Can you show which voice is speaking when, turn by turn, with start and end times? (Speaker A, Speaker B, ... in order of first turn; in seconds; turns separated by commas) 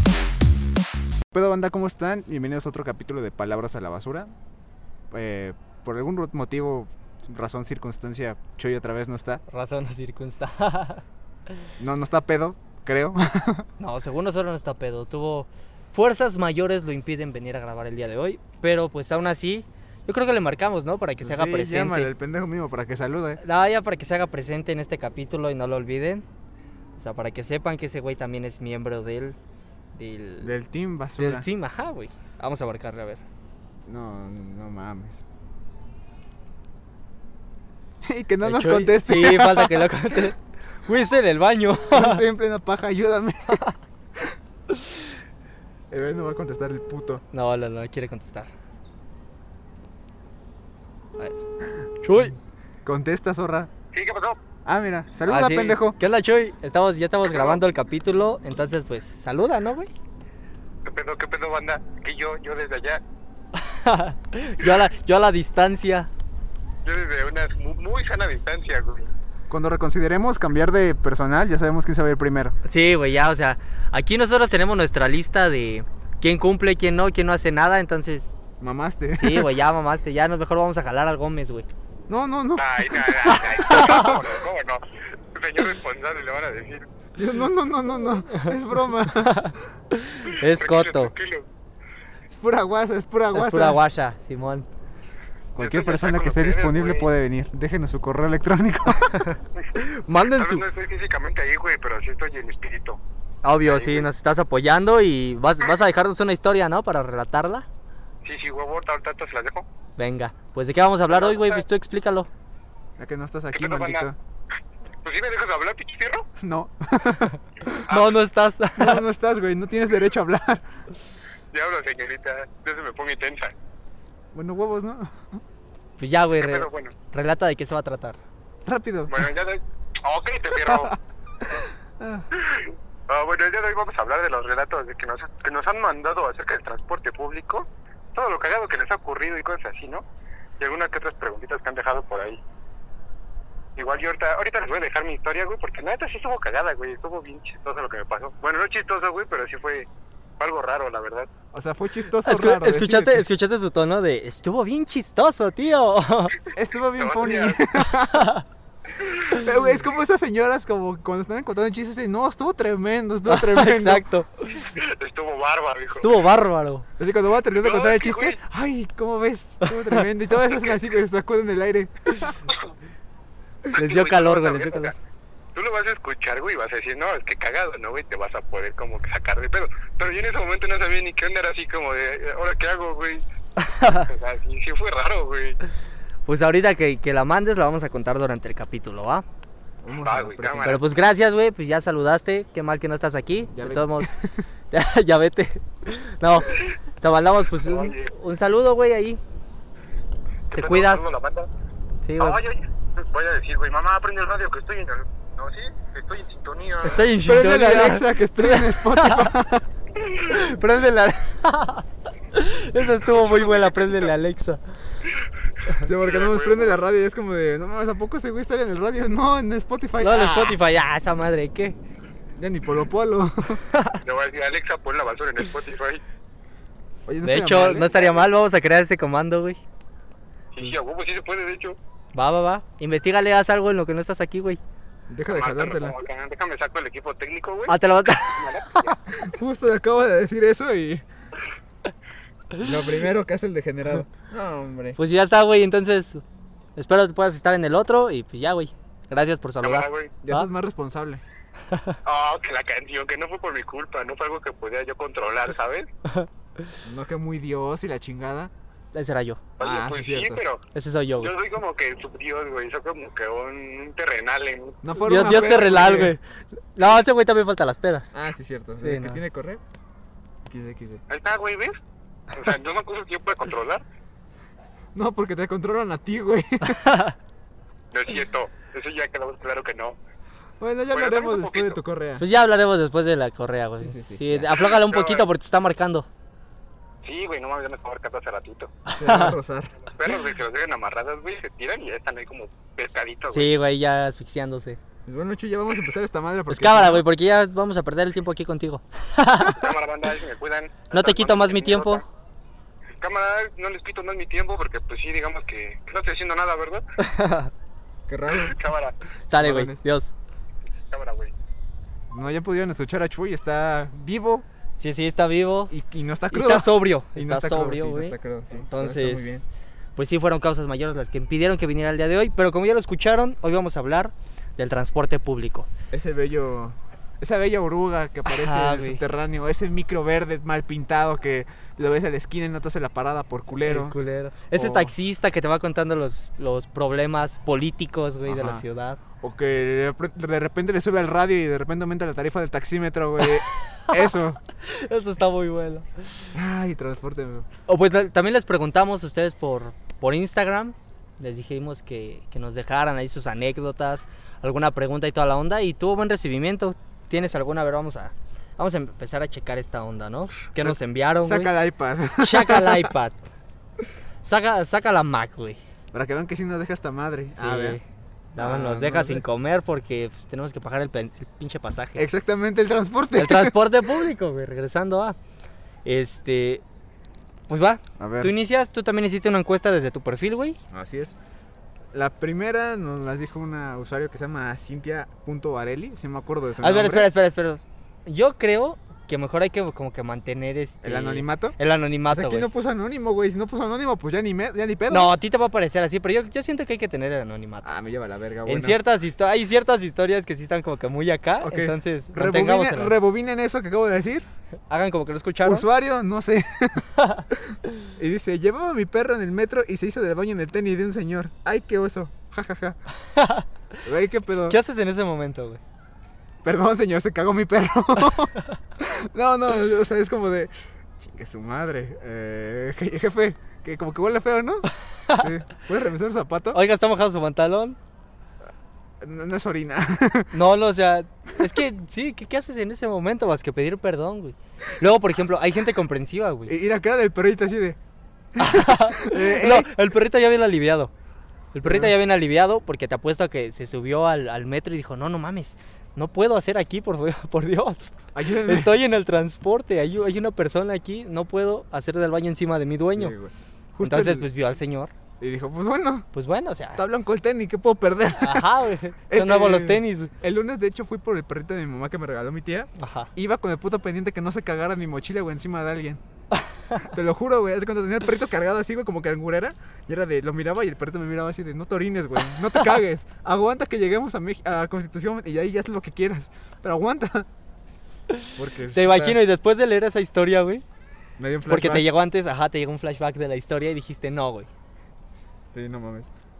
Speaker A: 1.3-4.3, Speaker A: 5.1-9.4, Speaker B: 9.5-11.0, Speaker A: 11.8-13.7, Speaker B: 13.8-22.1, Speaker A: 21.2-23.4, Speaker B: 23.4-26.2, Speaker B: 27.0-29.4, Speaker B: 29.9-30.5, Speaker A: 30.4-31.5, Speaker B: 31.2-33.2, Speaker A: 33.9-35.2, Speaker A: 38.0-40.3, Speaker B: 38.4-42.2, Speaker A: 41.9-43.6, Speaker A: 45.9-47.2, Speaker B: 47.3-48.5, Speaker B: 52.0-52.4, Speaker A: 52.8-53.7, Speaker C: 53.9-54.4, Speaker A: 54.6-56.0, Speaker B: 55.2-59.9, Speaker C: 57.3-57.6, Speaker C: 60.8-63.0, Speaker B: 63.5-66.1, Speaker C: 66.8-69.1, Speaker A: 69.5-72.5, Speaker B: 72.6-78.3, Speaker A: 78.6-79.5, Speaker B: 79.1-81.7, Speaker A: 82.1-84.2, Speaker C: 82.6-86.9, Speaker B: 83.3-84.1, Speaker A: 87.2-89.5, Speaker B: 89.1-91.1, Speaker C: 90.2-91.5, Speaker A: 92.3-93.8, Speaker B: 93.3-94.7, Speaker A: 95.5-99.3, Speaker C: 95.6-97.1, Speaker B: 99.1-100.6, Speaker C: 100.3-103.0, Speaker B: 103.4-107.7, Speaker C: 103.6-104.1, Speaker C: 108.2-109.6, Speaker B: 110.0-112.3, Speaker C: 111.1-111.6, Speaker A: 113.0-114.2, Speaker C: 113.5-114.1, Speaker C: 115.0-116.3, Speaker A: 116.4-117.8, Speaker C: 117.9-118.2, Speaker B: 117.9-119.0, Speaker A: 118.8-120.6, Speaker C: 121.5-123.5, Speaker A: 124.3-125.4, Speaker B: 126.0-128.2, Speaker C: 126.4-126.9, Speaker A: 128.7-129.3, Speaker C: 129.1-130.9, Speaker A: 130.6-132.3, Speaker C: 132.3-140.0, Speaker C: 140.6-142.4, Speaker C: 143.8-149.9, Speaker C: 150.4-151.3, Speaker A: 151.5-153.2, Speaker B: 152.2-156.3, Speaker A: 156.5-158.3, Speaker C: 157.0-157.6, Speaker B: 158.1-158.4, Speaker A: 159.3-164.0, Speaker B: 163.3-164.7, Speaker C: 164.6-166.1, Speaker B: 165.9-166.8, Speaker A: 167.0-172.4, Speaker C: 167.6-168.4, Speaker B: 169.6-170.0, Speaker C: 173.7-174.9, Speaker B: 173.7-174.9, Speaker C: 175.5-183.2, Speaker B: 183.6-184.1, Speaker C: 184.1-185.6, Speaker B: 186.2-189.2, Speaker A: 189.8-190.8, Speaker C: 189.9-190.8, Speaker B: 190.6-194.1, Speaker A: 193.5-194.4, Speaker B: 194.7-199.2, Speaker C: 197.6-198.1, Speaker B: 200.5-201.1, Speaker C: 200.5-201.5, Speaker B: 202.0-202.5, Speaker C: 202.2-207.1, Speaker B: 206.8-209.3, Speaker A: 207.2-209.7, Speaker C: 210.0-210.4, Speaker B: 210.2-214.6, Speaker C: 213.0-214.1, Speaker A: 215.8-220.6, Speaker C: 215.9-216.8, Speaker B: 220.0-221.8, Speaker A: 222.4-223.6, Speaker B: 223.7-224.0, Speaker C: 224.0-226.0, Speaker A: 227.1-228.0, Speaker B: 227.2-229.6, Speaker C: 230.5-231.8, Speaker B: 232.1-234.6, Speaker A: 235.1-235.9, Speaker C: 235.3-239.2, Speaker B: 237.7-238.8, Speaker A: 239.1-241.0, Speaker A: 242.6-245.0, Speaker B: 245.0-246.2, Speaker B: 246.8-250.5, Speaker C: 249.6-250.1, Speaker A: 250.2-251.2, Speaker B: 251.7-252.0, Speaker C: 252.0-255.9, Speaker A: 256.8-258.5, Speaker B: 258.9-259.4, Speaker C: 259.6-260.6, Speaker A: 259.6-260.4, Speaker B: 260.7-261.3, Speaker C: 261.2-264.8, Speaker A: 264.8-266.1, Speaker B: 265.0-268.1, Speaker A: 268.1-269.6, Speaker B: 268.8-269.2, Speaker A: 270.4-271.0, Speaker C: 271.1-271.8, Speaker C: 272.3-273.8, Speaker A: 274.9-277.0, Speaker B: 276.6-277.1, Speaker C: 277.9-280.0, Speaker A: 280.6-282.2, Speaker C: 280.9-281.8, Speaker B: 282.2-286.1, Speaker A: 283.8-284.5, Speaker C: 284.5-285.3, Speaker C: 287.0-288.7, Speaker B: 288.9-289.4, Speaker A: 289.0-289.9, Speaker C: 289.9-293.5, Speaker B: 293.3-294.8, Speaker A: 295.1-297.1, Speaker B: 296.5-299.7, Speaker C: 299.5-302.0, Speaker B: 300.9-302.0, Speaker C: 303.0-306.8, Speaker B: 307.0-307.5, Speaker A: 308.1-308.6, Speaker C: 308.3-308.9, Speaker B: 309.3-310.1, Speaker A: 309.4-309.8, Speaker C: 310.9-311.3, Speaker A: 312.1-314.4, Speaker B: 314.8-315.7, Speaker A: 315.7-319.4, Speaker B: 316.3-319.4, Speaker B: 319.9-325.7, Speaker A: 325.9-333.9, Speaker B: 328.2-329.0, Speaker B: 333.6-339.0, Speaker A: 334.5-334.9, Speaker A: 338.3-338.6, Speaker A: 339.2-344.4, Speaker B: 343.2-344.1, Speaker B: 344.6-345.9, Speaker A: 346.3-347.5, Speaker B: 347.7-361.5, Speaker A: 360.6-362.9, Speaker B: 362.2-363.2, Speaker B: 364.2-365.6, Speaker A: 365.9-367.8, Speaker B: 367.4-372.0, Speaker A: 368.4-369.2, Speaker A: 372.0-373.6, Speaker B: 373.1-375.2, Speaker B: 375.8-376.6, Speaker B: 377.5-380.6, Speaker A: 378.0-378.3, Speaker A: 380.7-381.1, Speaker A: 381.9-387.1, Speaker B: 386.6-392.5, Speaker A: 390.8-391.6, Speaker A: 392.1-395.1, Speaker B: 394.9-397.7, Speaker A: 397.6-398.8, Speaker B: 398.5-402.9, Speaker A: 401.4-404.2, Speaker B: 404.7-405.6, Speaker A: 405.4-412.8, Speaker B: 406.9-407.3, Speaker B: 413.0-413.4, Speaker A: 413.8-414.6, Speaker B: 414.5-415.6, Speaker A: 416.4-426.6, Speaker B: 425.0-425.3, Speaker B: 426.5-427.8, Speaker A: 429.0-430.3, Speaker B: 430.3-436.5, Speaker A: 436.5-437.8, Speaker A: 438.3-439.7, Speaker B: 438.4-440.9, Speaker B: 441.5-453.1, Speaker A: 441.6-441.9, Speaker A: 448.1-448.7, Speaker A: 452.9-454.3, Speaker B: 453.8-454.9, Speaker A: 455.2-456.1, Speaker B: 456.1-456.9, Speaker A: 456.8-458.5, Speaker B: 458.2-460.1, Speaker A: 459.1-466.0, Speaker B: 462.8-463.1, Speaker B: 466.4-466.8, Speaker A: 466.8-477.3, Speaker B: 478.1-480.6, Speaker A: 478.3-479.2, Speaker A: 481.2-481.9, Speaker B: 481.5-484.5, Speaker A: 485.5-486.1